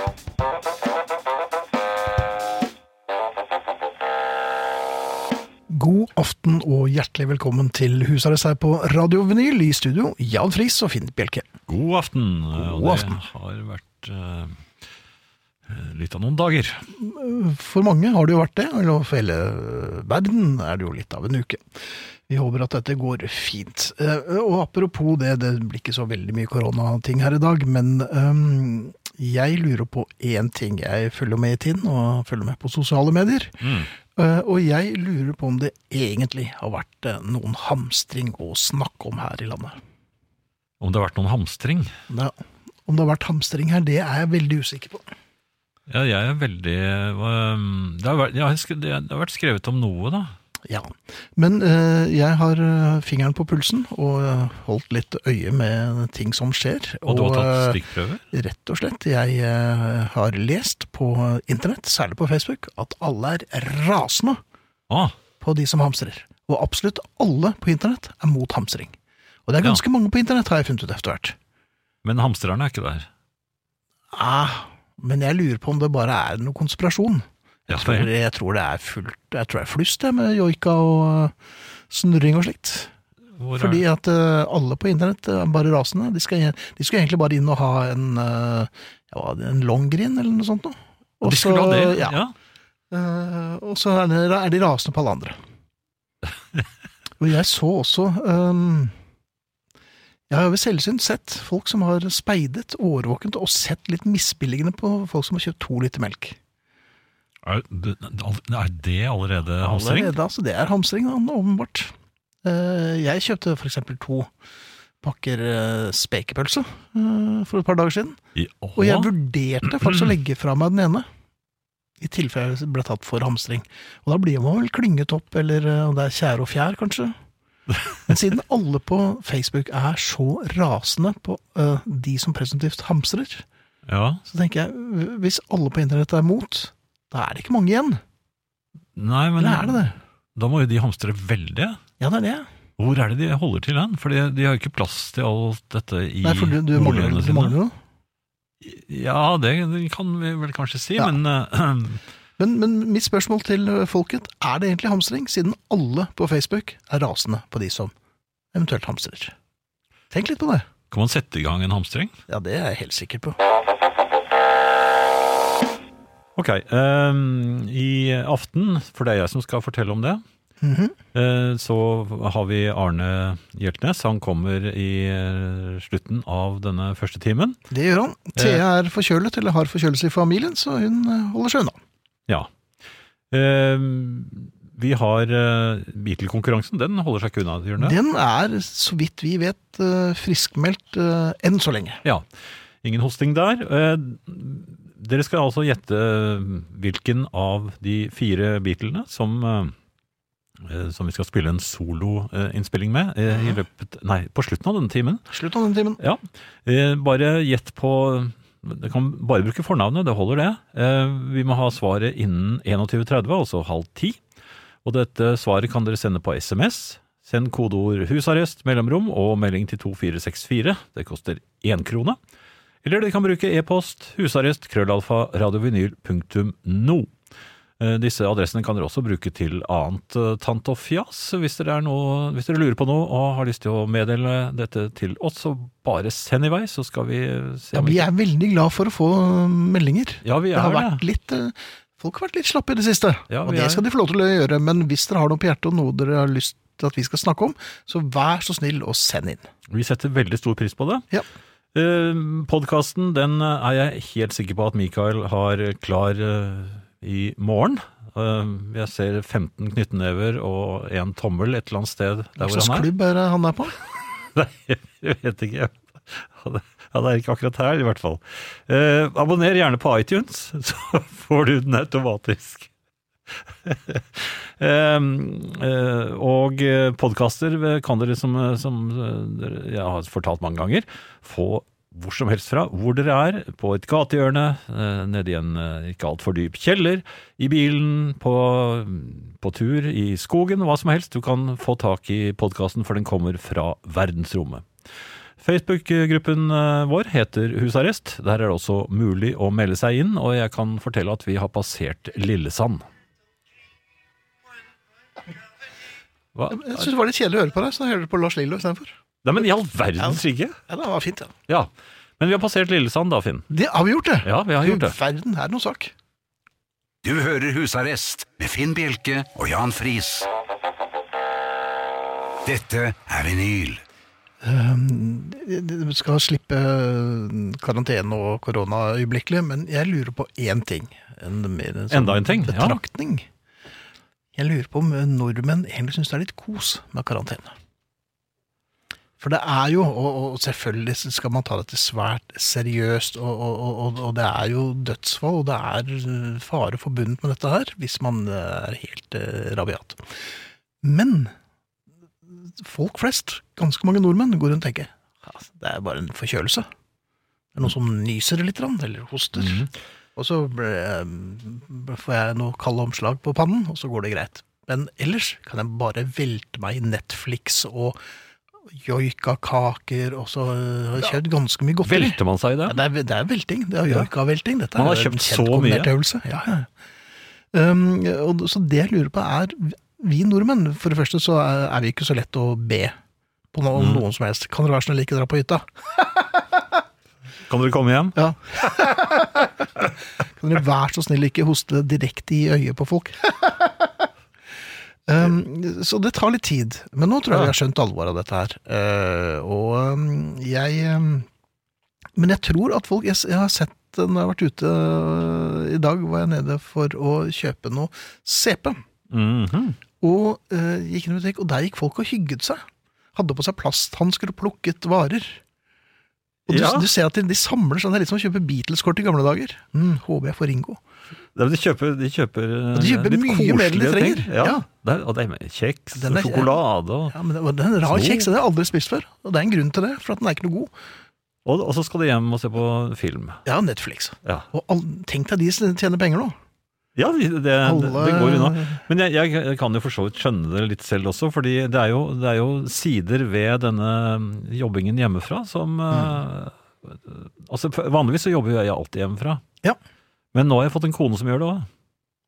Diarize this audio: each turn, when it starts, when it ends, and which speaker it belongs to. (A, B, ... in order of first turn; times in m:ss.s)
0:05.7-0:11.5 A
0:11.7-0:14.6 B
0:12.6-0:13.2 A
0:15.7-0:16.8 B
0:16.9-0:33.6 A
0:33.6-0:33.9 B
0:34.1-0:39.8 A
0:40.8-0:41.9 B
0:42.1-0:45.1 A
0:45.9-0:50.4 B
0:50.7-0:57.8 A
0:57.1-0:58.2 B
0:58.3-1:04.4 A
1:04.9-1:05.2 B
1:05.4-1:09.0 A
1:09.5-1:11.4 A
1:12.0-1:13.1 B
1:14.1-1:21.4 A
1:17.7-1:18.1 B
1:21.9-1:22.9 A
1:23.4-1:23.8 B
1:23.6-1:32.2 A
1:31.2-1:32.3 B
1:32.9-1:35.4 A
1:37.2-1:39.0 A
1:40.3-1:46.4 A
1:47.4-1:50.2 B
1:49.6-1:51.9 A
1:52.4-1:54.3 A
1:55.0-1:58.2 A
1:58.4-1:59.1 B
1:58.8-2:01.1 A
2:02.0-2:07.2 A
2:08.1-2:13.4 A
2:13.9-2:14.2 B
2:14.3-2:18.0 A
2:19.0-2:21.8 B
2:19.4-2:20.0 A
2:22.0-2:22.5 A
2:22.8-2:27.6 B
2:26.2-2:27.8 A
2:28.6-2:32.0 B
2:32.4-2:37.9 A
2:38.5-2:39.4 A
2:40.1-2:40.7 A
2:40.9-2:42.1 B
2:42.3-2:43.4 A
2:46.4-2:50.2 B
2:50.6-2:51.0 A
2:51.1-2:57.6 B
2:57.7-3:01.8 A
2:58.4-2:58.6 B
3:03.3-3:08.0 B
3:07.8-3:12.0 A
3:12.8-3:19.7 B
3:20.6-3:25.2 B
3:23.3-3:23.6 A
3:25.3-3:26.0 A
3:26.0-3:34.2 B
3:34.8-3:42.2 B
3:42.8-3:47.1 B
3:47.8-3:58.0 B
3:57.7-4:09.5 A
4:00.2-4:01.0 B
4:03.3-4:03.8 B
4:09.7-4:11.1 B
4:11.7-4:22.9 B
4:22.4-4:23.8 A
4:24.4-4:32.7 B
4:33.3-4:54.7 B
4:55.4-5:02.8 B
5:06.4-5:06.9 B
5:06.5-5:09.0 A
5:09.2-5:10.6 B
5:10.0-5:11.3 A
5:11.5-5:13.5 B
5:13.5-5:15.9 A
5:14.2-5:15.0 B
5:17.0-5:20.3 C
5:22.5-5:23.8 C
5:24.4-5:33.3 A
5:31.9-5:32.8 B
5:34.4-5:37.6 A
5:39.2-5:50.3 A
5:50.8-5:51.3 A
5:52.3-5:56.7 A
5:57.6-6:08.0 A
5:59.4-5:59.7 B
6:08.7-6:16.7 A
6:11.8-6:12.8 B
6:14.8-6:15.9 B
6:17.5-6:23.0 A
6:23.5-6:25.7 A
6:23.7-6:24.0 B
6:27.5-6:28.7 B
6:28.2-6:33.9 A
6:35.1-6:41.3 A
6:42.2-6:48.8 A
6:49.1-6:49.8 B
6:50.0-6:55.4 A
6:56.5-7:00.8 A
6:56.5-6:56.9 B
7:01.4-7:07.2 B
7:02.7-7:04.6 A
7:06.0-7:10.7 A
7:07.8-7:08.3 B
7:11.4-7:13.4 B
7:13.4-7:16.4 A
7:17.0-7:29.4 B
7:17.6-7:18.8 A
7:25.9-7:26.2 A
7:30.3-7:31.7 B